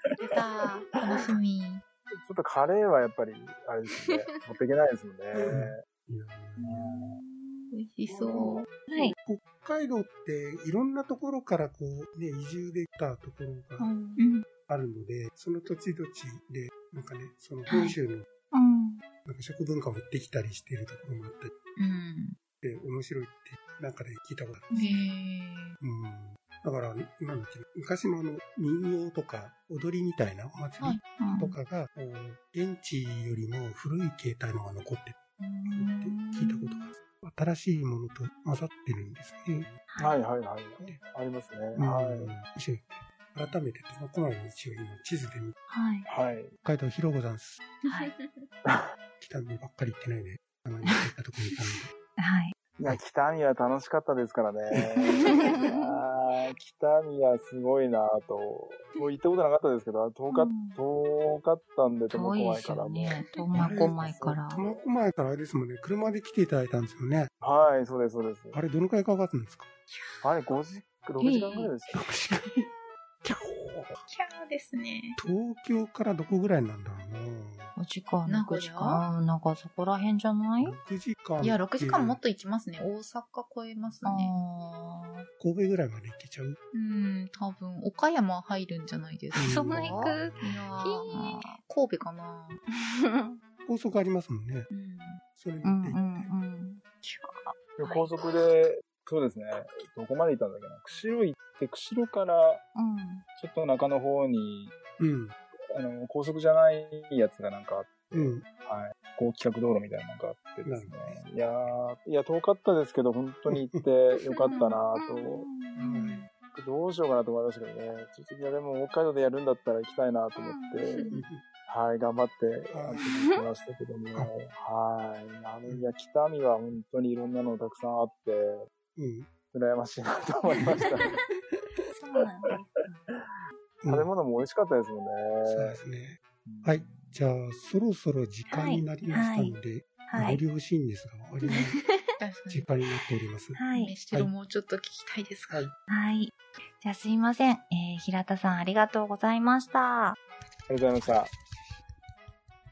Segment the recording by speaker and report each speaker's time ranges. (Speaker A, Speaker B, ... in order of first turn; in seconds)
Speaker A: 0.2-1.8, 7.7-8.7, 14.2-14.4, 21.8-22.4, 24.8-25.8, 47.9-48.5, 74.0-75.2, 78.3-79.0, 81.4-84.4, 86.7-92.6, 94.7-95.2, 120.9-121.2, 142.2-142.7, 143.7-145.7
Speaker B: 2.2-5.8, 8.3-8.7, 40.0-42.3, 46.1-46.5, 52.8-63.1, 67.4-68.6, 70.2-72.1, 97.8-102.6, 103.4-104.7, 105.7-115.5, 116.5-120.9, 121.7-128.7, 129.5-131.1, 133.9-135.8, 136.4-137.1, 150.7-151.3
Speaker C: 4.2-4.4, 6.8-7.7, 8.8-9.2, 13.8-14.2, 17.7-17.9, 18.5-19.0, 24.7-25.1, 31.2-31.6, 35.4-36.9, 39.9-40.2, 45.7-46.0, 47.9-48.1, 50.8-52.5, 55.0-55.9, 60.3-60.8, 62.1-64.6, 70.2-70.5, 71.2-71.7, 77.8-80.8, 84.0-85.3, 89.3-91.5, 92.7-93.4, 95.6-97.0, 97.8-98.6, 102.7-103.2, 114.5-116.3, 120.3-121.2, 123.0-123.5, 131.9-133.0, 138.5-140.4, 141.4-142.1, 143.6-143.9, 145.9-150.2
Speaker D: 5.3-6.8, 8.1-13.9, 14.7-18.3, 19.2-21.5, 22.6-24.9, 25.8-35.2, 35.7-39.7, 41.7-45.5, 46.6-47.6, 49.2-51.9, 63.5-67.3, 68.5-69.7, 71.9-72.7, 73.2-74.0, 75.2-77.7, 80.6-82.2, 85.4-86.6, 89.4-90.8, 93.6-94.7, 95.3-96.3, 105.0-105.3, 108.1-108.4, 110.6-111.7, 113.5-113.8, 115.8-116.2, 121.1-121.4, 122.7-123.1, 125.7-125.9, 128.9-129.3, 133.8-134.1, 135.4-141.7, 142.5-143.6